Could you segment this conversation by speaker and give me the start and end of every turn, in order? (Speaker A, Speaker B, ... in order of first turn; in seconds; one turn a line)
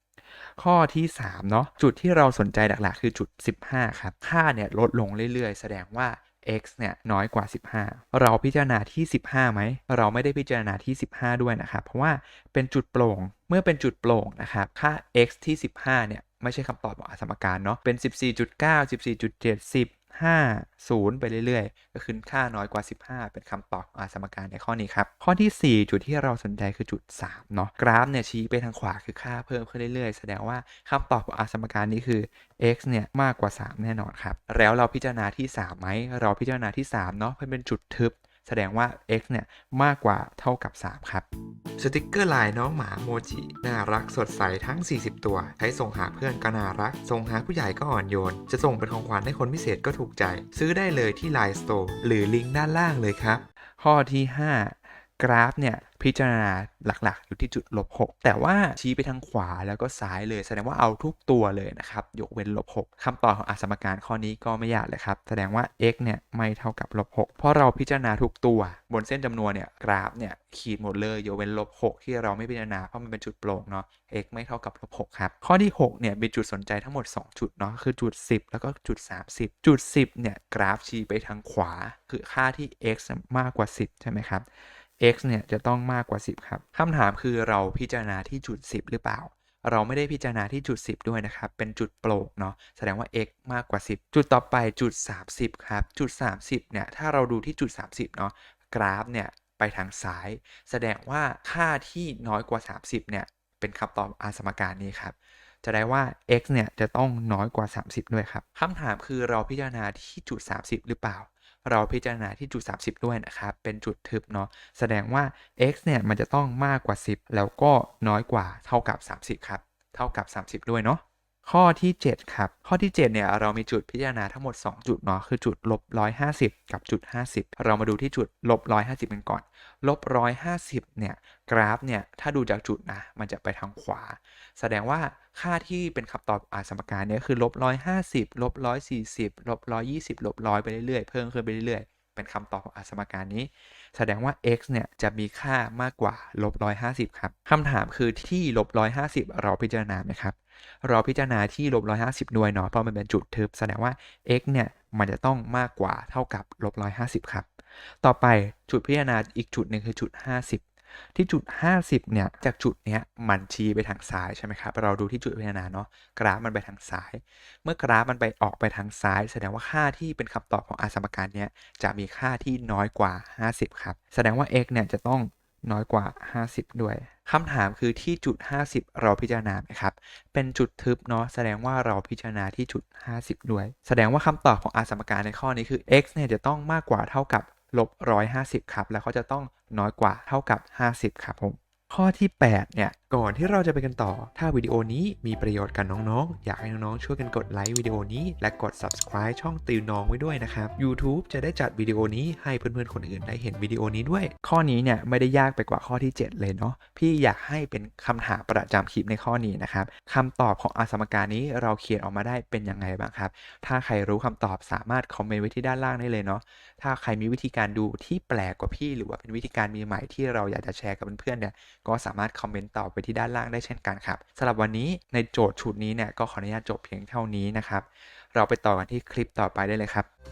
Speaker A: 0.4-41.2
Speaker A: 41.8-84.5
Speaker A: 85.0-157.5
Speaker A: 158.0-230.1